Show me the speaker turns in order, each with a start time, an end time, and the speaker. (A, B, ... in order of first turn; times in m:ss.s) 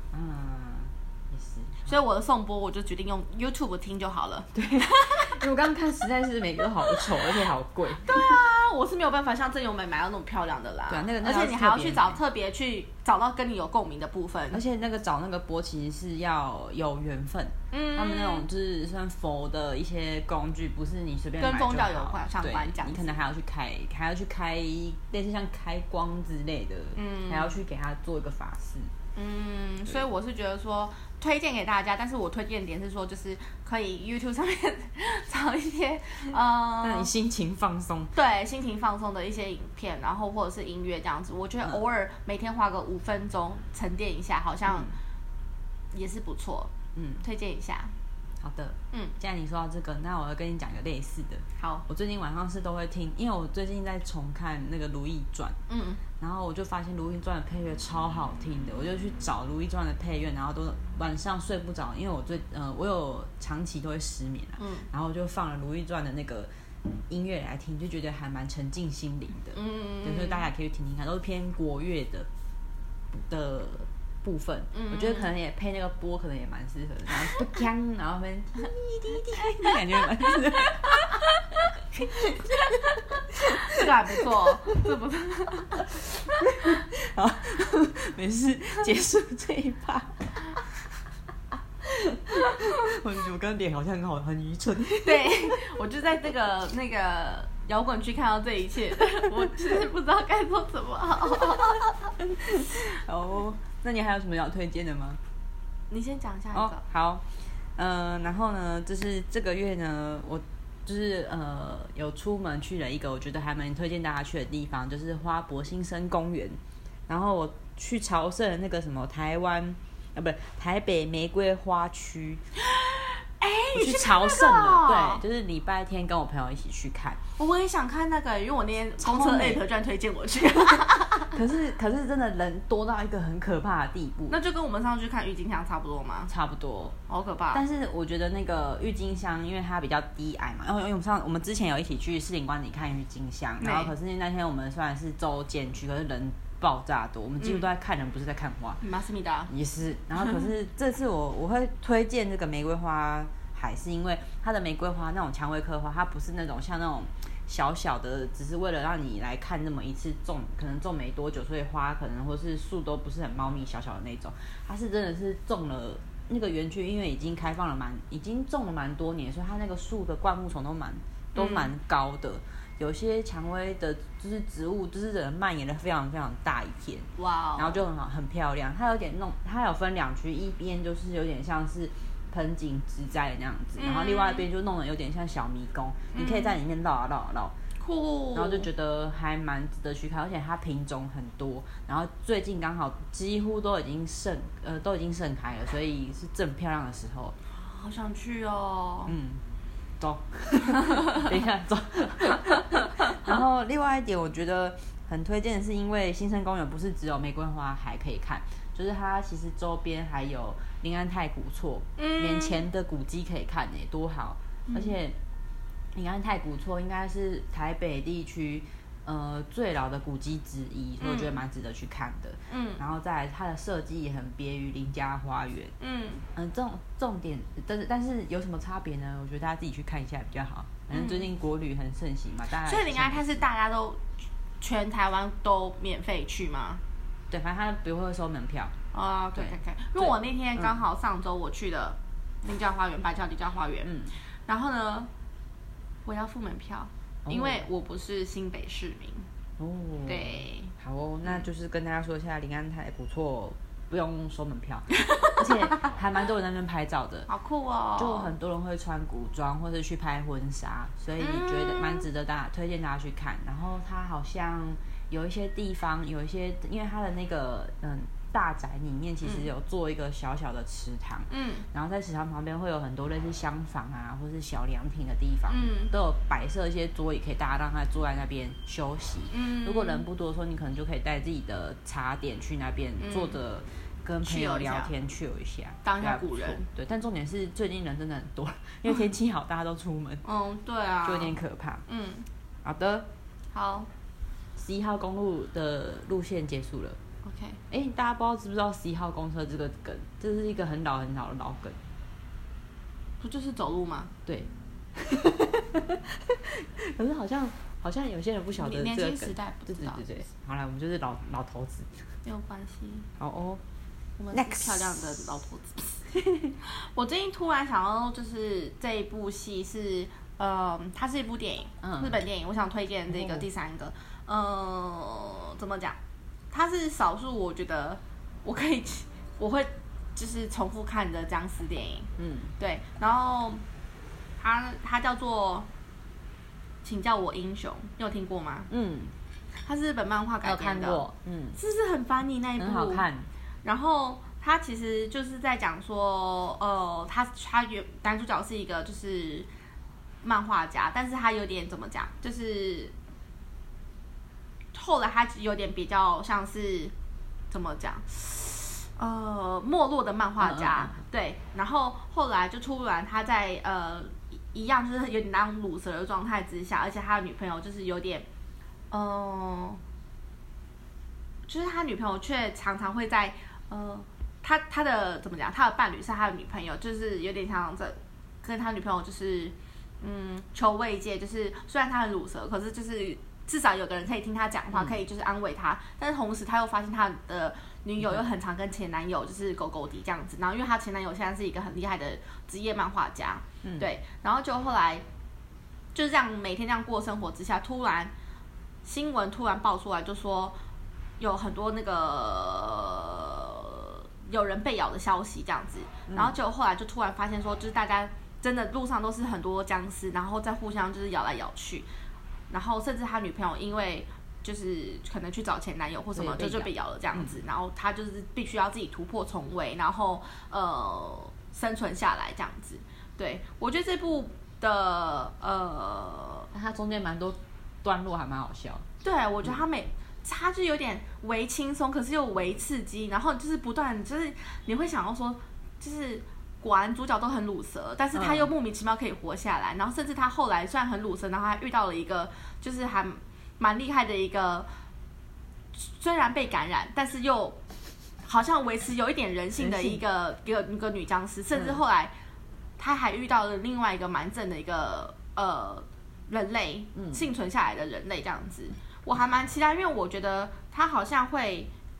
0:00.1-0:02.0 A
0:01.8-0:05.4 B
0:04.5-0:08.3 A
0:07.9-0:14.6 B
0:10.9-0:12.2 A
0:14.5-0:28.9 A
0:17.7-0:18.4 B
0:21.4-0:23.2 B
0:26.9-0:27.6 B
0:29.1-0:37.1 B
0:36.8-0:38.1 A
0:38.1-0:44.9 B
0:44.7-0:45.0 A
0:45.9-0:47.9 B
0:46.9-0:47.2 A
0:48.4-0:55.6 A
0:51.6-0:51.8 B
0:55.7-0:56.0 B
0:56.2-1:06.5 A
1:04.6-1:04.9 B
1:07.1-1:12.3 A
1:09.5-1:10.5 B
1:13.1-1:21.3 A
1:14.7-1:15.3 B
1:19.3-1:21.0 B
1:21.9-1:24.8 A
1:22.6-1:26.7 B
1:26.3-1:30.6 A
1:31.8-1:35.7 A
1:35.0-1:41.9 B
1:41.5-1:45.2 A
1:45.9-1:46.8 B
1:46.5-2:02.4 A
2:02.6-2:05.2 B
2:03.7-2:07.2 A
2:07.4-2:11.4 B
2:09.0-2:09.6 A
2:11.3-2:14.4 A
2:14.3-2:16.3 B
2:16.3-2:17.0 A
2:17.1-2:17.6 B
2:17.5-2:28.8 A
2:23.6-2:23.9 B
2:27.4-2:27.7 B
2:28.8-2:29.5 B
2:29.5-3:07.5 A
2:51.3-2:51.7 B
2:57.2-2:57.8 B
3:03.8-3:04.4 B
3:06.1-3:06.5 B
3:07.8-3:08.7 B
3:08.3-3:17.4 A
3:17.5-3:19.1 B
3:19.1-3:19.4 A
3:20.0-3:35.2 A
3:32.0-3:32.6 B
3:34.7-3:35.0 B
3:35.9-3:45.7 A
3:41.0-3:41.4 B
3:42.5-3:42.8 B
3:45.8-3:46.2 B
3:46.3-3:53.2 A
3:50.9-3:51.3 B
3:52.6-3:54.0 B
3:54.6-3:56.8 B
3:57.3-3:58.7 A
3:58.9-4:05.1 B
3:59.4-4:00.8 A
4:03.9-4:04.1 A
4:06.0-4:09.3 B
4:07.2-4:07.6 A
4:09.6-4:17.3 A
4:10.0-4:10.7 B
4:15.0-4:15.8 B
4:17.3-4:18.3 B
4:18.0-4:50.2 A
4:21.2-4:22.0 B
4:31.3-4:31.6 B
4:35.5-4:35.9 B
4:39.3-4:40.0 B
4:43.0-4:43.4 B
4:44.2-4:44.9 B
4:45.8-4:46.6 B
4:50.2-4:51.4 B
4:51.0-4:51.8 A
4:51.9-4:52.2 B
4:52.6-4:53.1 A
4:53.5-4:53.9 B
4:54.6-4:57.0 A
4:57.2-4:57.6 B
4:57.7-5:01.8 A
5:03.2-5:04.1 B
5:04.2-5:12.1 A
5:08.6-5:10.0 B
5:12.2-5:13.1 B
5:13.2-5:13.6 A
5:14.2-5:16.1 B
5:14.3-5:15.1 A
5:16.1-5:16.5 A
5:16.6-5:26.0 B
5:21.8-5:22.2 A
5:23.1-5:23.4 A
5:26.5-5:33.6 B
5:32.2-5:32.5 A
5:34.4-5:35.7 B
5:36.8-5:38.7 B
5:38.7-5:39.1 A
5:39.6-5:41.0 B
5:40.4-5:41.6 A
5:41.6-5:43.0 B
5:42.6-5:43.3 A
5:43.6-5:49.5 B
5:50.2-5:52.9 B
5:54.7-5:56.9 B
5:57.5-6:08.3 B
6:00.4-6:01.0 A
6:08.9-6:09.8 B
6:11.5-6:35.0 B
6:24.7-6:25.0 A
6:33.6-6:33.9 A
6:35.9-6:38.1 B
6:38.8-6:40.6 B
6:41.2-6:51.9 B
6:46.1-6:46.3 A
6:52.5-7:06.5 B
6:56.1-6:57.4 A
7:06.5-7:08.8 A
7:09.0-7:24.7 B
7:18.1-7:18.5 A
7:25.7-7:27.6 B
7:28.2-7:32.1 B
7:29.6-7:30.0 A
7:32.8-7:41.7 B
7:37.0-7:37.2 A